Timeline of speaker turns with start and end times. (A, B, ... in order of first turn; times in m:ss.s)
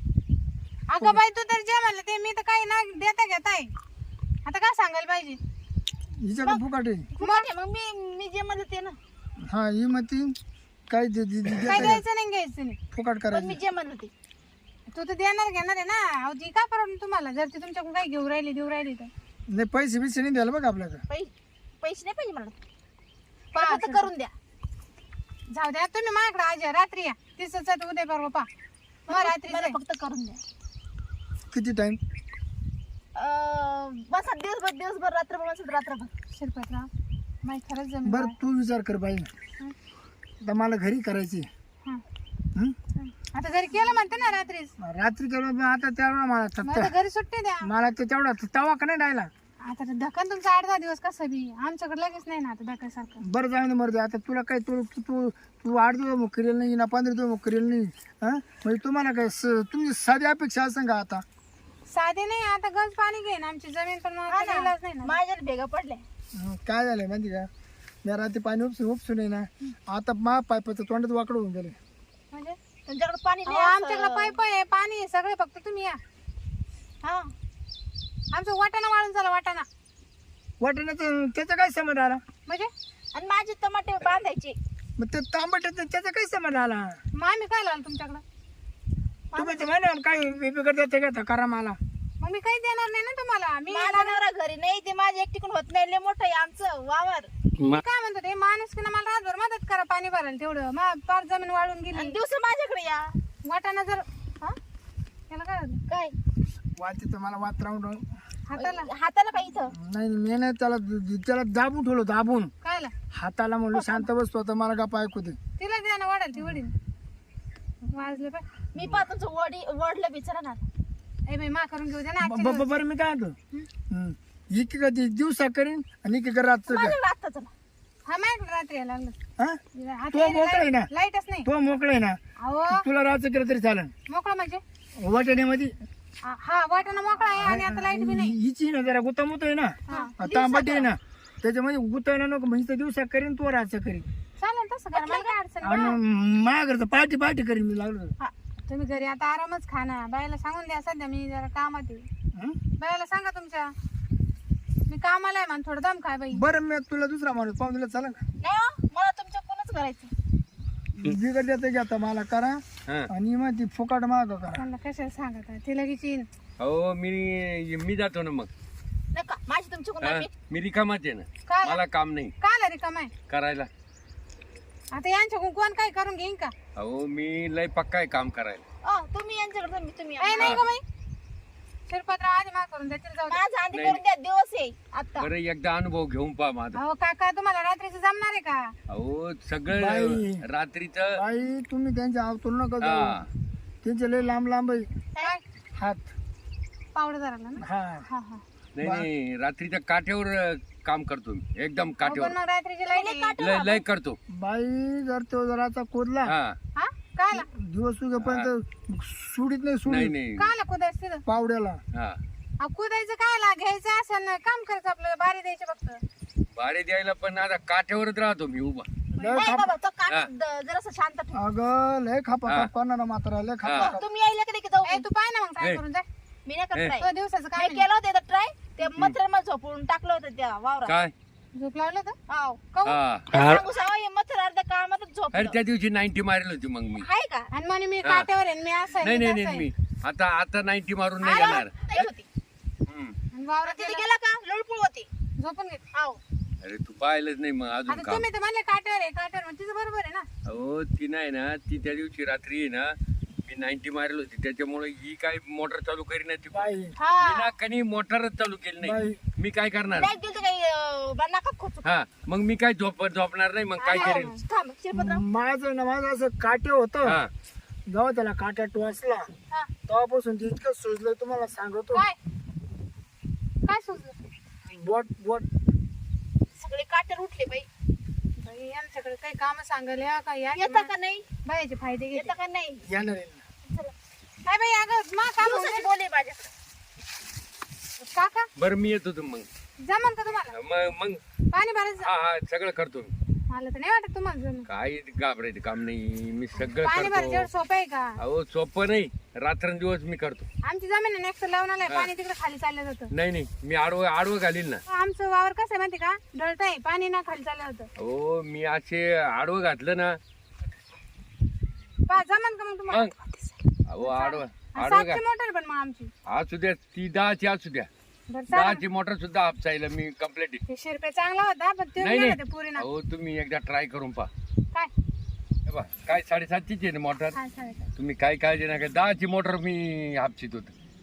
0:00.9-0:03.7 A
0:04.4-0:05.4 A
0:06.1-0:07.1 B
0:07.1-0:09.0 C
0:07.2-0:07.5 A
0:09.4-0:10.4 B
0:10.9-0:12.0 B
0:11.6-0:12.8 A
0:12.9-0:13.6 B
0:13.3-0:14.1 C
0:14.9-0:19.1 A
0:19.5-0:21.0 B
0:21.1-0:22.6 C
0:23.5-0:24.3 C
0:23.6-0:24.1 A
0:25.5-0:28.5 A
0:29.1-0:30.4 C
0:29.1-0:29.8 A
0:31.5-0:32.0 B
0:33.1-0:36.1 C
0:36.3-0:36.9 A
0:37.4-0:38.3 A
0:38.0-0:39.3 B
0:40.4-0:41.5 B
0:43.0-0:44.7 A
0:44.8-0:46.9 B
0:46.6-0:47.7 A
0:47.6-0:49.3 B
0:49.6-0:53.2 A
0:53.2-1:01.2 B
1:01.9-1:05.1 A
1:04.3-1:06.0 C
1:06.3-1:07.5 B
1:08.0-1:11.8 B
1:12.3-1:12.6 A
1:12.8-1:14.3 C
1:13.4-1:16.0 A
1:17.0-1:17.3 C
1:18.3-1:19.6 A
1:20.6-1:22.2 B
1:22.4-1:22.7 A
1:23.1-1:24.6 C
1:25.0-1:27.0 B
1:27.1-1:28.2 A
1:29.3-1:29.7 C
1:29.3-1:31.8 B
1:32.2-1:34.2 A
1:33.7-1:37.3 C
1:37.7-1:42.2 A
1:41.9-1:43.2 C
1:43.4-1:44.5 A
1:45.3-1:45.8 A
1:45.9-1:46.1 C
1:46.8-1:48.0 B
1:48.5-1:48.9 A
1:48.6-1:49.7 C
1:49.7-1:52.5 B
1:52.6-1:52.9 A
1:53.1-1:55.4 B
1:53.7-1:54.0 C
1:55.6-1:56.7 A
1:57.8-1:58.4 A
1:58.7-2:00.6 C
1:58.8-1:59.0 D
2:01.3-2:02.7 A
2:02.2-2:03.4 B
2:03.9-2:07.0 B
2:06.7-2:07.5 C
2:08.0-2:09.1 A
2:09.7-2:11.5 A
2:10.1-2:10.9 B
2:11.4-2:13.9 B
2:12.4-2:12.8 A
2:14.1-2:14.6 A
2:15.0-2:15.7 B
2:16.2-2:18.4 A
2:17.4-2:24.1 B
2:19.9-2:20.1 A
2:19.9-2:20.9 C
2:24.4-2:26.0 A
2:24.9-2:25.3 C
2:25.6-2:28.1 B
2:28.7-2:32.1 A
2:32.3-2:32.6 B
2:32.8-2:33.7 A
2:34.9-2:36.4 A
2:36.3-2:38.2 B
2:38.4-2:40.1 C
2:41.0-2:44.6 B
2:44.5-2:46.2 A
2:46.6-2:48.5 D
2:49.1-2:50.3 C
2:50.0-2:52.3 D
2:51.5-2:51.8 A
2:52.4-2:53.1 A
2:53.3-2:53.7 D
2:54.9-2:56.5 A
2:56.8-2:58.6 D
2:58.8-3:00.6 C
3:00.2-3:00.8 A
3:00.4-3:00.6 D
3:01.9-3:03.4 A
3:03.3-3:05.3 C
3:03.7-3:04.0 D
3:05.2-3:06.8 D
3:06.7-3:08.7 A
3:08.9-3:11.2 D
3:09.7-3:10.4 B
3:11.1-3:13.2 B
3:12.8-3:13.3 D
3:13.8-3:14.9 B
3:15.8-3:16.1 B
3:16.9-3:18.4 A
3:17.6-3:18.1 B
3:18.8-3:22.4 D
3:18.8-3:19.1 B
3:22.0-3:23.3 A
3:22.9-3:23.8 C
3:23.4-3:24.2 D
3:24.3-3:26.3 B
3:26.2-3:26.6 D
3:26.8-3:27.4 A
3:27.3-3:30.2 B
3:28.2-3:28.5 D
3:29.8-3:30.5 D
3:30.4-3:31.2 A
3:31.2-3:31.8 B
3:32.6-3:36.0 A
3:36.5-3:38.8 D
3:39.1-3:39.7 B
3:39.2-3:41.4 C
3:41.3-3:44.0 B
3:43.6-3:44.0 D
3:43.7-3:45.0 C
3:44.8-3:46.0 A
3:46.4-3:51.0 C
3:46.7-3:47.0 D
3:47.0-3:47.9 A
3:48.8-3:49.2 D
3:50.8-3:51.1 D
3:51.5-3:52.2 A
3:52.3-3:52.7 C
3:52.7-3:53.0 A
3:52.8-3:53.6 D
3:53.3-3:55.6 C
3:55.3-3:57.1 D
3:57.0-3:57.5 C
3:57.5-3:59.7 A
3:59.0-4:02.1 D
4:01.2-4:02.2 C
4:01.2-4:01.6 A
4:02.9-4:03.1 D
4:03.3-4:04.0 A
4:03.6-4:05.1 C
4:05.4-4:05.8 A
4:05.9-4:06.2 C
4:06.6-4:08.2 D
4:07.9-4:10.2 A
4:10.4-4:12.9 D
4:13.4-4:20.1 D
4:16.5-4:17.0 B
4:17.0-4:17.5 C
4:18.8-4:19.2 B
4:19.9-4:21.9 C
4:21.8-4:24.3 D
4:23.8-4:25.2 C
4:23.9-4:24.3 A
4:24.9-4:27.2 B
4:27.0-4:27.3 D
4:27.9-4:29.3 B
4:29.9-4:32.1 B
4:33.6-4:34.1 A
4:34.6-4:35.5 B
4:36.6-4:37.7 C
4:38.4-4:40.9 A
4:40.5-4:41.2 C
4:41.4-4:42.3 A
4:42.1-4:42.8 C
4:42.9-4:43.4 B
4:43.7-4:43.9 C
4:44.4-4:45.9 A
4:45.4-4:46.5 C
4:48.0-4:48.5 A
4:48.6-4:49.5 D
4:49.8-4:50.6 A
4:50.5-4:51.2 D
4:51.5-4:52.1 A
4:52.0-4:53.1 D
4:53.5-4:54.7 A
4:54.6-4:57.5 D
4:56.7-4:58.2 A
4:58.2-5:00.5 D
5:00.6-5:03.1 A
5:03.1-5:04.8 D
5:04.9-5:07.9 A
5:08.0-5:10.2 D
5:12.1-5:16.1 A
5:13.9-5:15.2 D
5:16.3-5:17.9 D
5:18.3-5:18.8 A
5:18.5-5:20.6 D
5:20.7-5:22.8 A
5:22.0-5:24.3 D
5:25.7-5:27.4 D
5:27.3-5:27.9 A
5:28.0-5:30.7 D